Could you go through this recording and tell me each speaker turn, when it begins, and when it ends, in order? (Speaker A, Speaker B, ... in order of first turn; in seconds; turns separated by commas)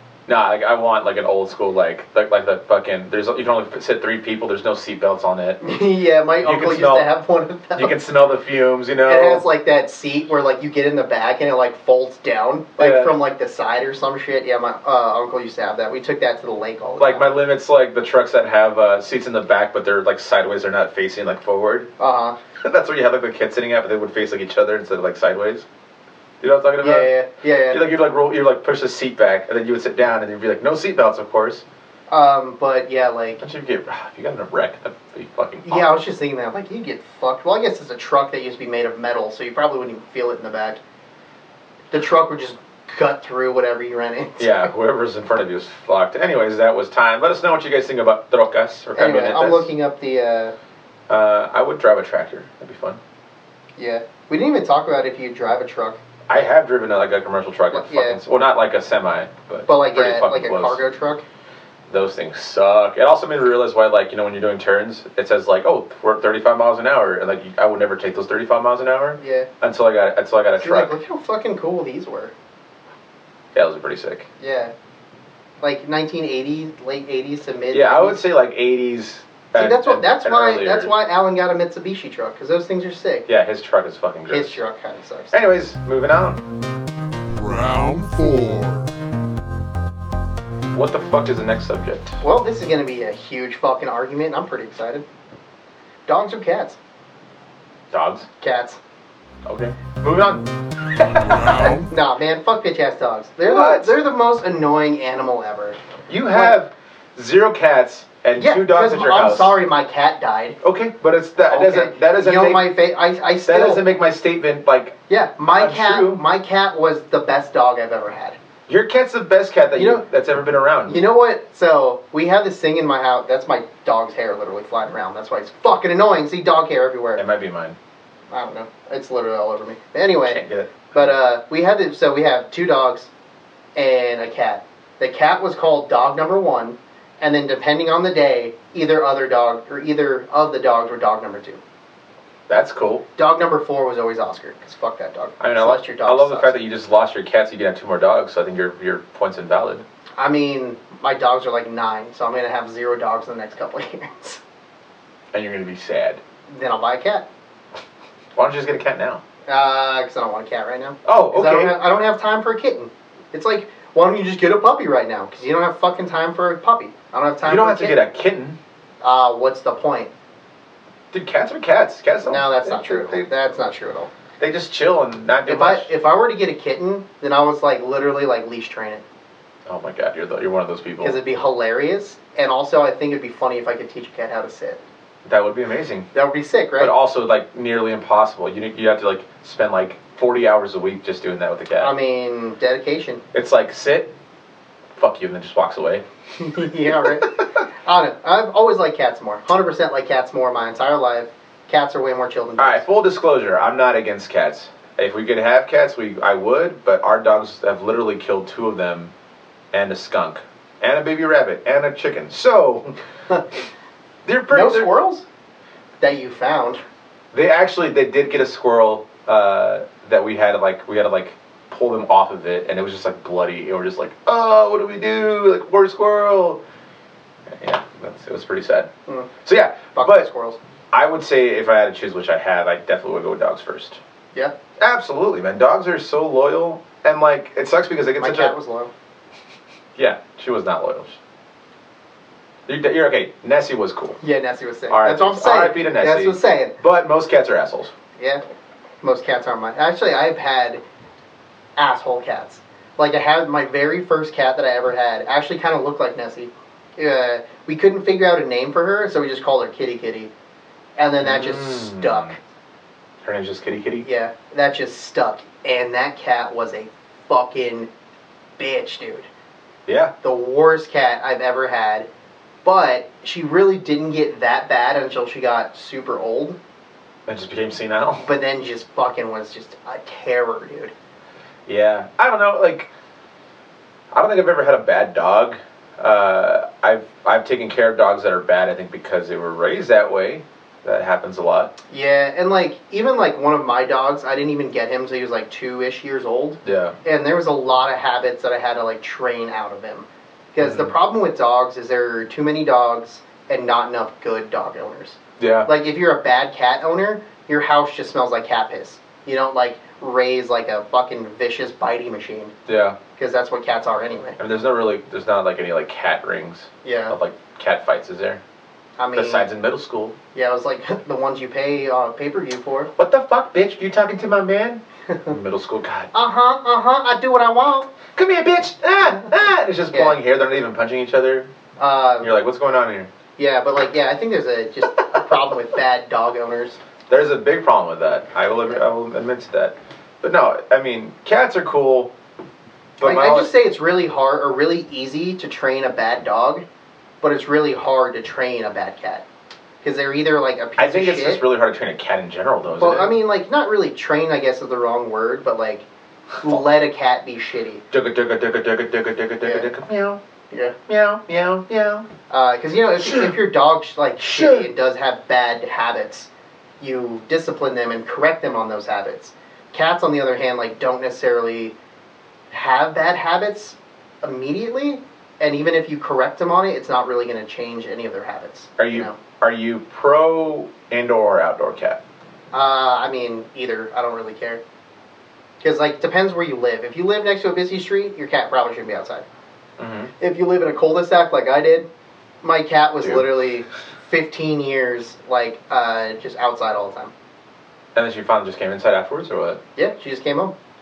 Speaker A: 0.3-5.6, Speaker B: 5.6-8.0, Speaker A: 6.4-7.1, Speaker A: 7.8-9.4, Speaker B: 9.1-17.3, Speaker A: 12.8-13.2, Speaker A: 17.0-21.9, Speaker B: 22.0-22.4, Speaker A: 22.6-25.7, Speaker A: 26.4-27.1, Speaker B: 26.8-27.8, Speaker A: 27.7-31.6, Speaker B: 32.1-33.4, Speaker A: 33.4-36.0, Speaker B: 35.6-40.8, Speaker B: 41.9-44.7, Speaker A: 44.4-49.7, Speaker B: 49.0-50.5, Speaker A: 51.1-53.0, Speaker B: 53.8-56.0, Speaker A: 56.3-60.8, Speaker B: 57.7-58.2, Speaker B: 59.7-61.2, Speaker A: 61.9-70.9, Speaker B: 69.2-69.5, Speaker B: 70.6-72.3, Speaker A: 73.5-74.3, Speaker B: 74.4-74.7, Speaker B: 75.6-78.2, Speaker A: 77.7-80.9, Speaker B: 79.5-83.3, Speaker A: 83.3-84.6, Speaker B: 84.3-85.4, Speaker A: 85.3-86.4, Speaker C: 87.3-88.9, Speaker A: 90.7-92.2, Speaker B: 92.2-95.0, Speaker B: 96.1-96.8, Speaker A: 97.9-98.3, Speaker B: 98.4-98.8, Speaker A: 99.5-101.5, Speaker C: 101.1-101.9, Speaker B: 101.6-105.8, Speaker A: 103.4-104.0, Speaker A: 106.1-109.6, Speaker B: 108.4-110.6, Speaker A: 110.6-112.7, Speaker B: 111.5-113.8, Speaker A: 113.4-115.0, Speaker B: 115.1-118.4, Speaker A: 115.5-116.2, Speaker A: 118.7-121.0, Speaker B: 119.8-120.0, Speaker B: 120.9-127.2, Speaker A: 127.2-127.8, Speaker B: 128.3-130.4, Speaker A: 130.2-131.1, Speaker B: 130.9-133.1, Speaker B: 133.8-141.6, Speaker A: 142.5-143.1, Speaker B: 143.2-146.6, Speaker A: 145.4-149.8, Speaker B: 150.2-154.4, Speaker A: 155.3-156.2, Speaker B: 156.5-157.3, Speaker A: 158.4-159.2, Speaker B: 159.5-168.0, Speaker A: 161.1-161.8, Speaker A: 167.4-168.6, Speaker B: 169.0-170.1, Speaker A: 171.1-173.2, Speaker B: 172.2-174.1, Speaker A: 174.4-175.9, Speaker B: 175.5-179.0, Speaker A: 179.7-181.2, Speaker B: 181.0-184.8, Speaker A: 185.2-186.1, Speaker B: 186.1-186.9, Speaker A: 186.8-191.9, Speaker B: 191.8-193.2, Speaker A: 193.3-194.1, Speaker A: 195.0-196.0, Speaker B: 196.4-202.8, Speaker A: 197.0-197.2, Speaker A: 202.6-209.1, Speaker A: 209.7-212.9, Speaker A: 214.2-214.9, Speaker B: 214.5-215.2, Speaker B: 216.0-216.8, Speaker A: 217.3-226.6, Speaker A: 227.5-228.9, Speaker A: 229.4-230.3, Speaker B: 229.9-230.6, Speaker A: 230.9-234.0, Speaker A: 234.8-238.6, Speaker B: 238.2-238.9, Speaker A: 240.0-241.2, Speaker A: 242.7-244.2, Speaker B: 244.2-246.8, Speaker A: 244.9-247.9, Speaker B: 248.2-248.4, Speaker B: 249.0-250.8, Speaker B: 251.8-260.3, Speaker B: 261.0-262.4, Speaker A: 261.2-262.4, Speaker A: 263.2-264.1, Speaker B: 264.0-267.9, Speaker B: 268.6-269.3, Speaker A: 269.9-270.1, Speaker B: 270.2-272.1, Speaker B: 272.6-276.6, Speaker A: 277.3-278.2, Speaker B: 278.2-280.9, Speaker A: 281.7-282.9, Speaker A: 284.1-291.7, Speaker B: 291.9-312.5, Speaker A: 296.6-296.9, Speaker A: 300.6-300.9, Speaker A: 305.4-305.7, Speaker A: 312.7-313.0, Speaker B: 313.2-314.4, Speaker A: 314.4-318.4, Speaker B: 316.8-317.2, Speaker B: 319.0-319.5, Speaker A: 319.2-320.2, Speaker B: 320.3-322.9, Speaker A: 323.0-326.1, Speaker B: 326.1-327.9, Speaker A: 328.1-331.5, Speaker B: 329.9-330.2, Speaker B: 331.8-332.3, Speaker A: 332.2-333.1, Speaker B: 333.4-336.8, Speaker A: 337.1-342.1, Speaker A: 343.0-343.5, Speaker B: 343.0-346.6, Speaker B: 347.2-349.2, Speaker B: 349.8-351.4, Speaker A: 350.8-353.1, Speaker B: 352.8-355.9, Speaker B: 356.4-357.8, Speaker A: 357.9-360.2, Speaker B: 359.4-359.7, Speaker B: 360.5-360.8, Speaker A: 360.9-362.1, Speaker B: 362.3-371.8, Speaker A: 363.0-363.3, Speaker A: 364.2-364.7, Speaker B: 372.5-379.2, Speaker A: 378.8-382.0, Speaker B: 382.5-384.6, Speaker B: 385.6-389.2, Speaker A: 389.8-390.1, Speaker B: 390.2-391.9, Speaker B: 392.4-397.1, Speaker A: 393.0-393.3, Speaker A: 397.9-399.6, Speaker B: 399.8-400.5